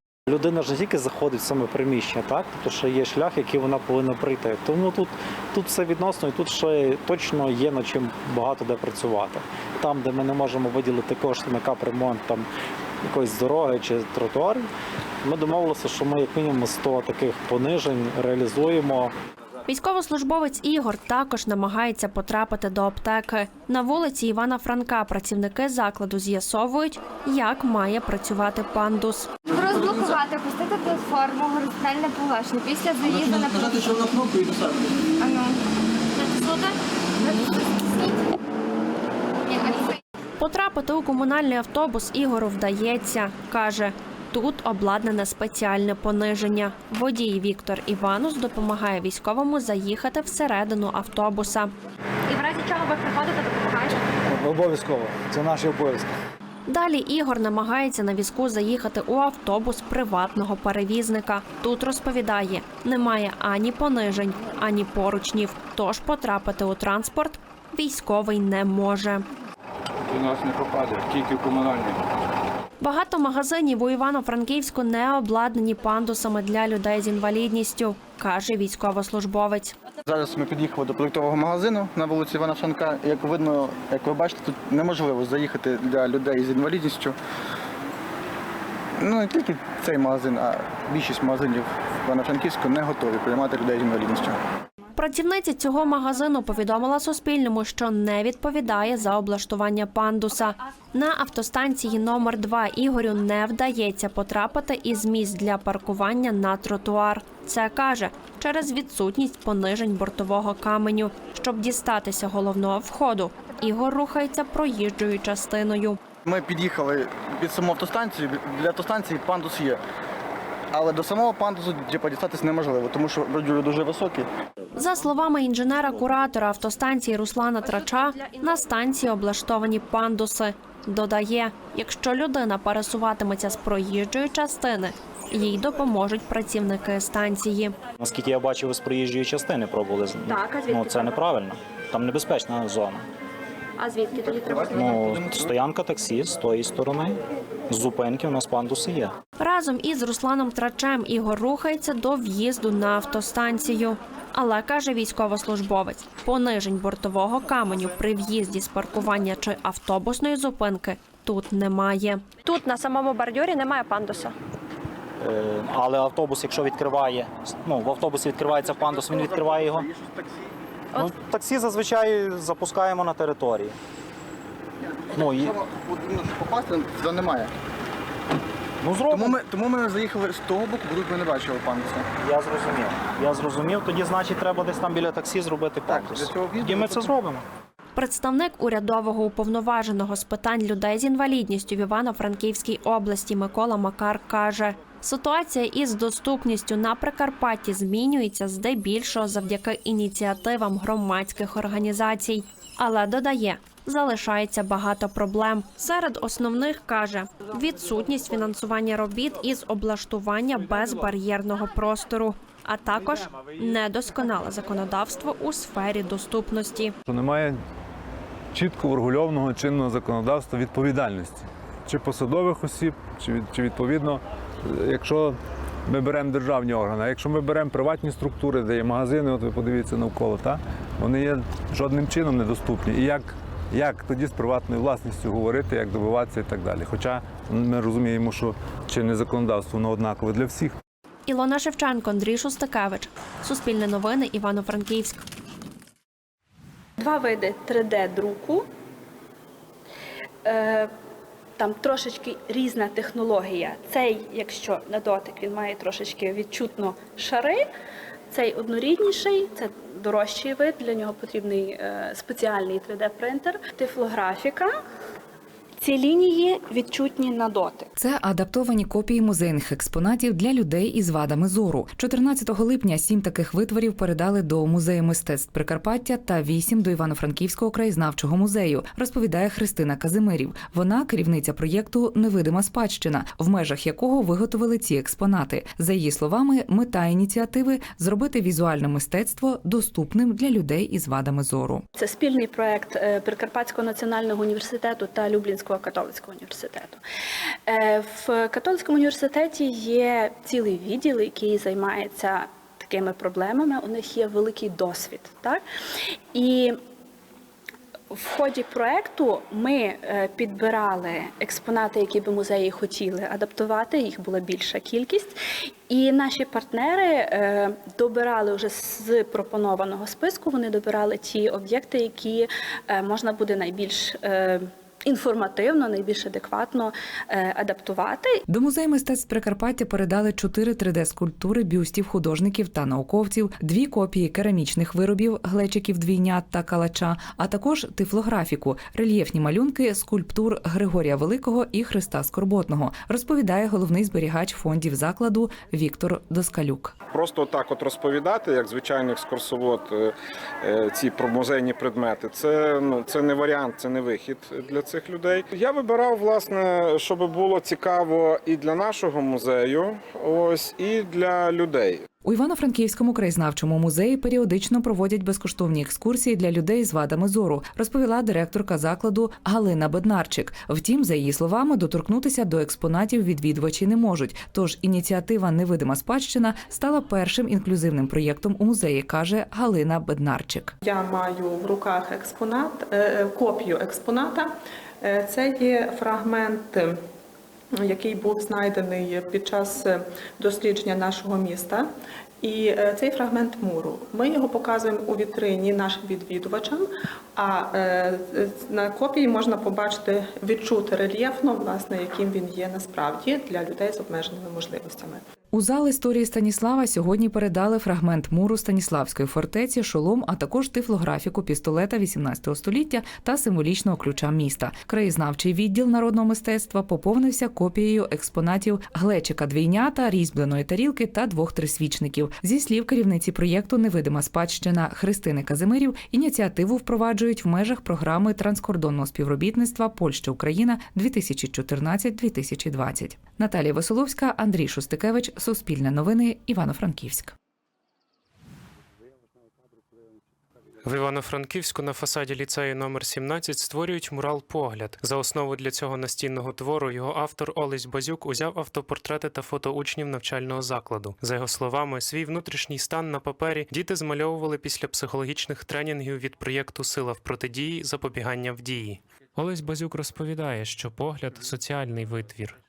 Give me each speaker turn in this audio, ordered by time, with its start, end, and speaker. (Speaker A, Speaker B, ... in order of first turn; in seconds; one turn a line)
Speaker A: 0.3-12.4
Speaker A: 13.1-14.7
Speaker A: 15.2-19.1
Speaker B: 19.7-29.3
Speaker C: 29.6-33.8
Speaker C: 35.2-35.5
Speaker C: 36.2-37.5
Speaker C: 39.5-39.8
Speaker B: 40.4-51.7
Speaker C: 52.3-54.0
Speaker A: 54.5-56.0
Speaker B: 56.7-69.2
Speaker B: 72.8-79.7
Speaker D: 80.0-87.2
Speaker D: 89.0-94.4
Speaker B: 94.9-116.0
Speaker D: 116.2-119.8
Speaker D: 120.7-124.3
Speaker B: 124.7-137.8
Speaker A: 138.0-143.0
Speaker E: 140.3-141.2
Speaker E: 143.8-144.6
Speaker D: 144.5-145.5
Speaker A: 144.7-147.2
Speaker A: 147.7-149.1
Speaker B: 149.4-162.4
Speaker A: 165.2-169.9
Speaker D: 168.4-170.4
Speaker A: 170.9-173.7
Speaker D: 174.8-177.5
Speaker A: 175.1-175.5
Speaker A: 178.8-179.3
Speaker D: 179.0-182.1
Speaker A: 182.2-187.4
Speaker D: 185.8-187.2
Speaker B: 187.9-216.9
Speaker F: 217.1-217.6
Speaker F: 218.5-240.8
Speaker B: 241.3-245.2
Speaker E: 247.0-248.7
Speaker E: 250.4-250.9
Speaker E: 251.6-257.7
Speaker E: 258.3-264.7
Speaker E: 265.8-267.9
Speaker G: 267.9-291.8
Speaker E: 291.9-297.0
Speaker E: 297.6-305.6
Speaker E: 306.3-306.8
Speaker E: 308.1-328.4
Speaker G: 328.5-346.9
Speaker H: 347.1-350.1
Speaker H: 350.6-362.0
Speaker G: 362.2-380.7
Speaker I: 380.8-386.9
Speaker I: 387.8-391.9
Speaker I: 392.4-405.2
Speaker G: 405.5-437.3
Speaker J: 440.8-462.6